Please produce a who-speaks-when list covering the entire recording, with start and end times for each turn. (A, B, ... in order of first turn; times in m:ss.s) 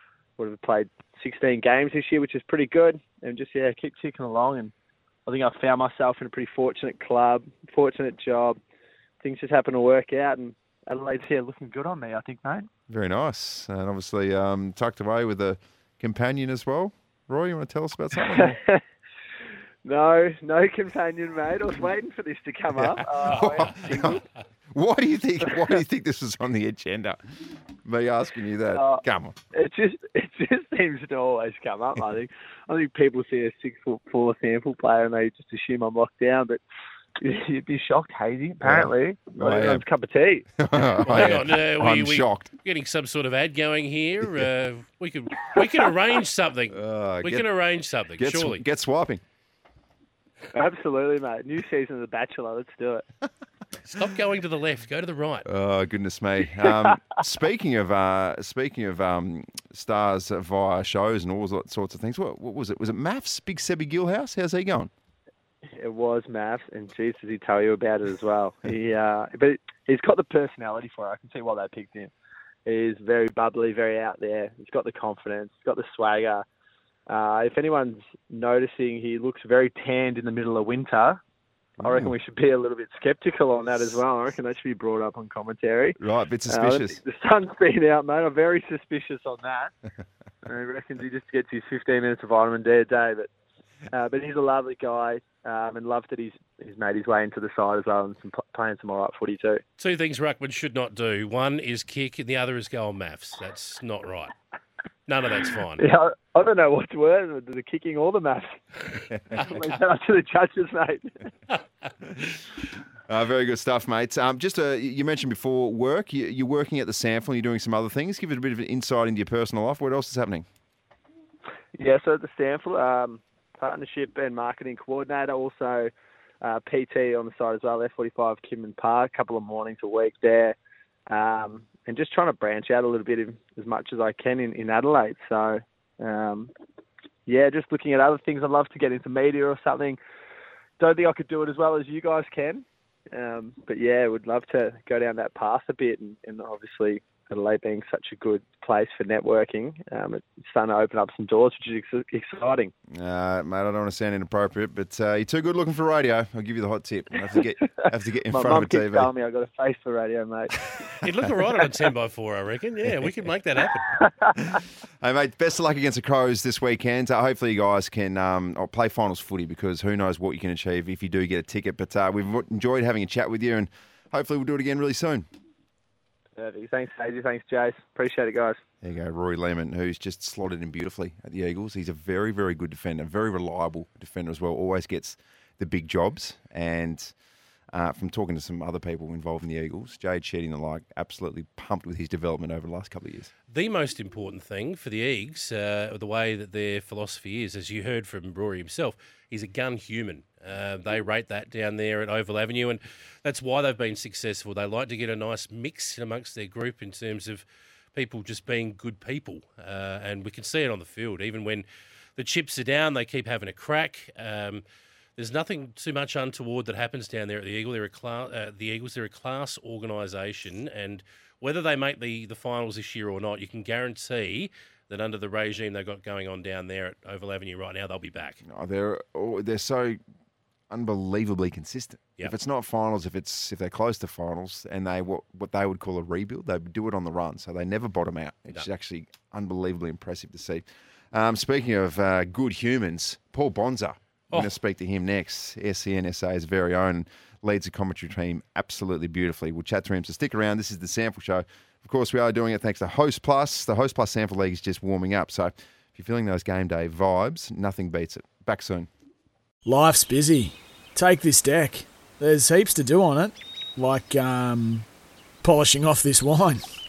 0:00.4-0:04.7 A
0:05.2-0:08.6 A
0:09.2-0:12.7 A
0:12.9-0:18.6 B
0:18.3-0:18.8 A
0:19.8-0:24.2 A
0:22.8-0:24.2 B
0:24.7-0:27.2 B
0:27.8-0:29.4 B
0:28.7-0:36.6 A
0:37.2-0:40.4 A
0:38.6-0:39.8 B
0:40.6-0:42.5 B
0:41.1-0:48.6 C
0:46.7-0:47.4 B
0:48.2-0:49.2 B
0:50.5-0:53.0 A
0:53.8-0:55.4 C
0:55.4-1:04.9 B
1:05.8-1:12.1 A
1:12.6-1:16.4 A
1:17.1-1:21.2 A
1:21.8-1:22.1 B
1:21.8-1:26.0 A
1:26.0-1:27.0 B
1:26.5-1:29.7 A
1:30.4-1:33.3 A
1:33.9-1:39.6 A
1:39.8-1:44.3 C
1:45.1-1:45.8 C
1:45.8-1:48.6 A
1:49.3-1:51.3 A
1:53.1-2:00.4 B
2:01.7-2:05.9 A
2:06.4-2:10.6 A
2:11.1-2:16.5 A
2:17.2-2:20.0 A
2:20.8-2:32.7 A
2:32.9-2:39.1 B
2:38.3-2:40.6 A
2:41.0-2:44.0 C
2:44.4-2:55.3 B
2:56.4-2:58.6 A
2:58.8-3:07.1 B
3:07.7-3:13.3 B
3:13.5-3:31.6 C
3:32.2-3:34.6 C
3:35.2-3:48.4 C
3:48.4-3:50.0 B
3:50.7-4:18.9 B
4:19.6-4:24.8 D
4:25.4-4:26.6 D